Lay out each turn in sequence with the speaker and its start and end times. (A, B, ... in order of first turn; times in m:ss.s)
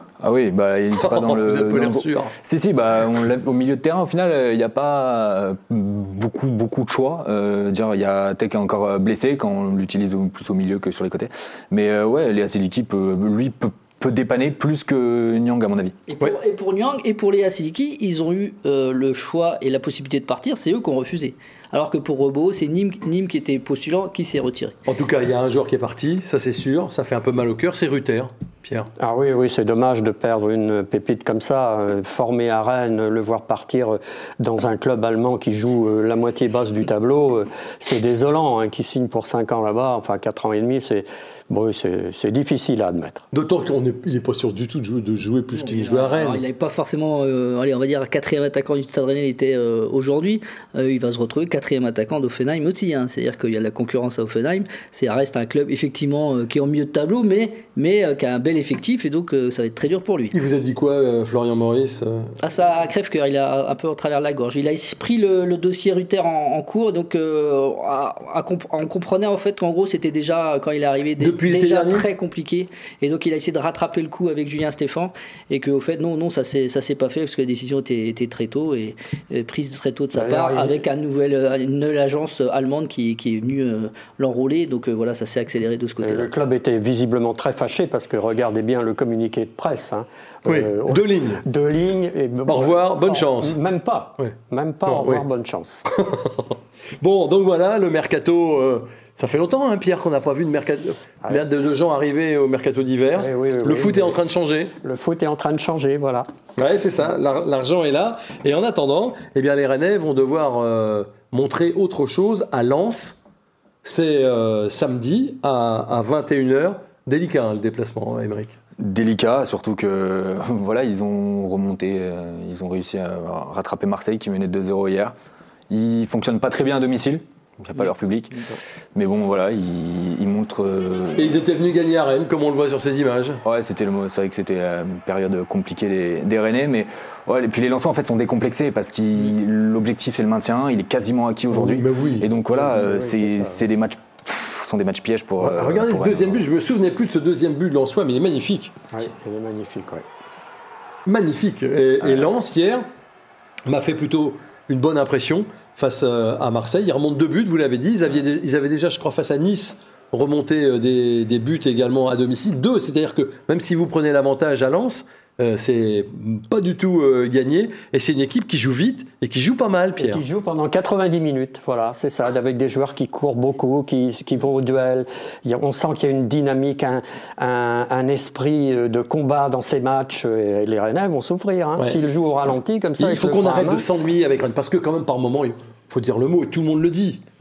0:00.2-0:16.0 A
0:01.0-0:02.3 B
0:16.1-0:24.8 C
0:24.9-0:28.9 B
0:29.0-0:43.2 D
0:43.3-0:46.4 B
0:45.5-1:00.4 C
1:00.3-1:02.4 B
1:02.4-1:26.3 C
1:11.2-1:12.1 B
1:20.1-1:20.8 D
1:26.0-1:35.8 D
1:30.5-1:31.4 B
1:32.5-1:33.6 B
1:34.9-1:35.2 B
1:35.9-1:44.7 B
1:43.2-1:44.2 D
1:44.8-1:46.3 D
1:46.6-1:53.2 B
1:53.8-1:58.6 B
1:58.8-2:05.2 A
2:05.7-2:11.4 A
2:11.2-2:13.4 B
2:13.4-2:26.4 A
2:21.5-2:22.3 B
2:22.5-2:23.6 D
2:25.4-2:28.8 B
2:28.9-2:30.1 D
2:31.1-2:32.8 B
2:33.7-2:50.2 B
2:50.0-3:03.9 D
3:01.8-3:02.0 B
3:03.0-3:07.2 B